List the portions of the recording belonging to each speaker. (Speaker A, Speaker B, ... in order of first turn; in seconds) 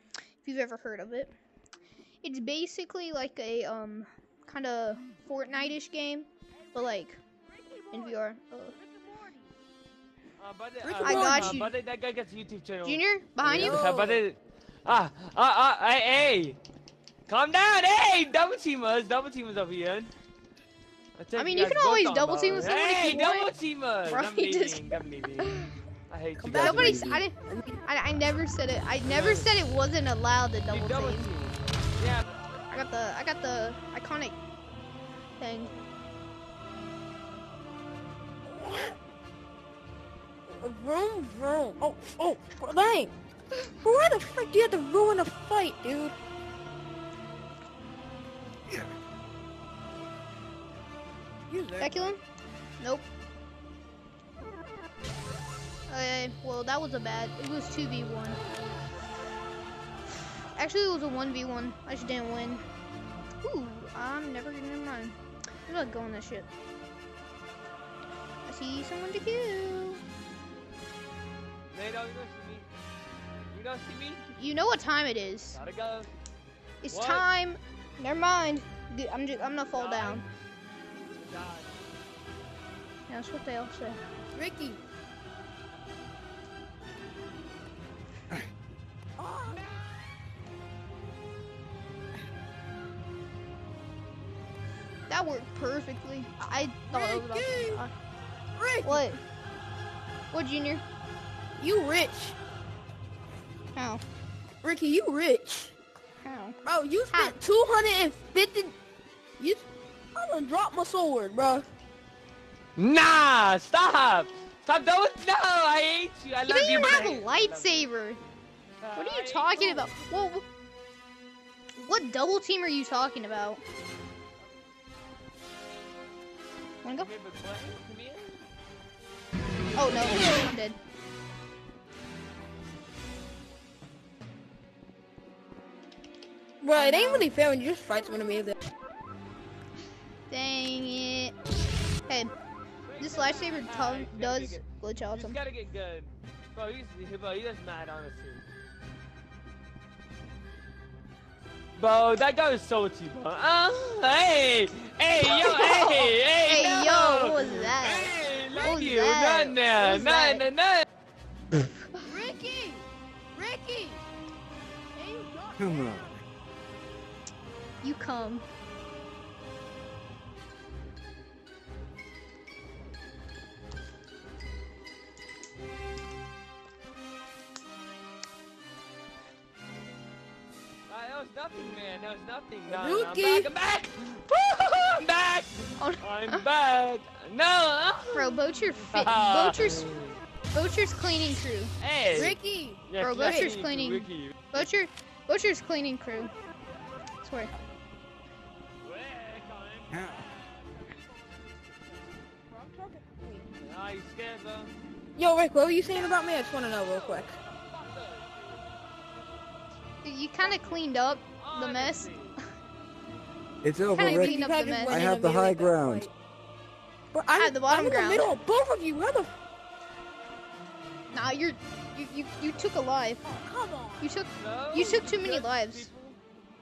Speaker A: 0.4-1.3, 2.2-7.2, 7.9-8.8, 11.0-11.7, 12.8-13.9, 21.4-23.5, 24.1-25.7, 26.5-27.3, 27.9-31.3, 32.7-34.4, 35.4-35.7, 51.8-52.2, 52.8-53.1, 55.9-58.4, 60.5-62.6, 63.4-65.2, 65.7-66.5, 68.4-70.0, 74.3-75.6, 76.8-80.2, 83.1-84.0, 95.1-97.9, 98.8-99.2, 100.3-100.8, 103.7-104.0, 106.2-106.5, 107.1-107.4, 116.5-118.2, 118.9-120.4, 121.8-123.6, 126.8-127.1, 129.7-130.8, 136.7-137.3, 140.3-141.3, 143.0-145.4, 155.2-160.4, 161.9-162.2, 167.8-168.4, 185.8-186.4, 188.1-189.9, 190.5-191.7, 193.0-196.3, 197.2-197.5, 210.0-212.1, 213.9-215.0, 217.3-218.4, 221.1-223.2, 224.0-225.9
Speaker B: 7.6-8.0, 8.8-9.4, 10.8-11.6, 13.4-14.2, 26.4-27.8, 38.5-38.9, 40.5-43.1, 43.8-46.1, 51.5-52.1, 84.3-84.8, 89.2-89.7, 96.9-97.8, 98.5-99.0, 101.6-102.4, 104.6-105.7, 106.6-108.8, 109.4-111.7, 129.8-130.4, 136.6-138.6, 162.0-164.0, 164.9-166.2, 182.7-183.5, 192.1-193.5, 202.5-203.5, 205.2-207.4, 214.0-216.1, 217.1-219.3, 223.2-224.1
Speaker C: 10.4-16.6, 17.3-20.1, 21.2-27.1, 29.1-29.5, 30.7-32.2, 71.7-72.7, 73.5-74.2, 75.5-76.1, 76.9-77.3, 79.7-80.2, 81.2-81.8, 112.8-117.9, 118.8-119.9, 127.0-128.4, 142.9-148.4, 151.8-160.9, 180.9-190.2, 191.8-194.6, 198.8-200.5, 203.6-204.7, 206.8-208.6, 211.4-212.3, 224.4-226.2
Speaker D: 165.6-166.2, 199.9-200.2, 213.6-216.1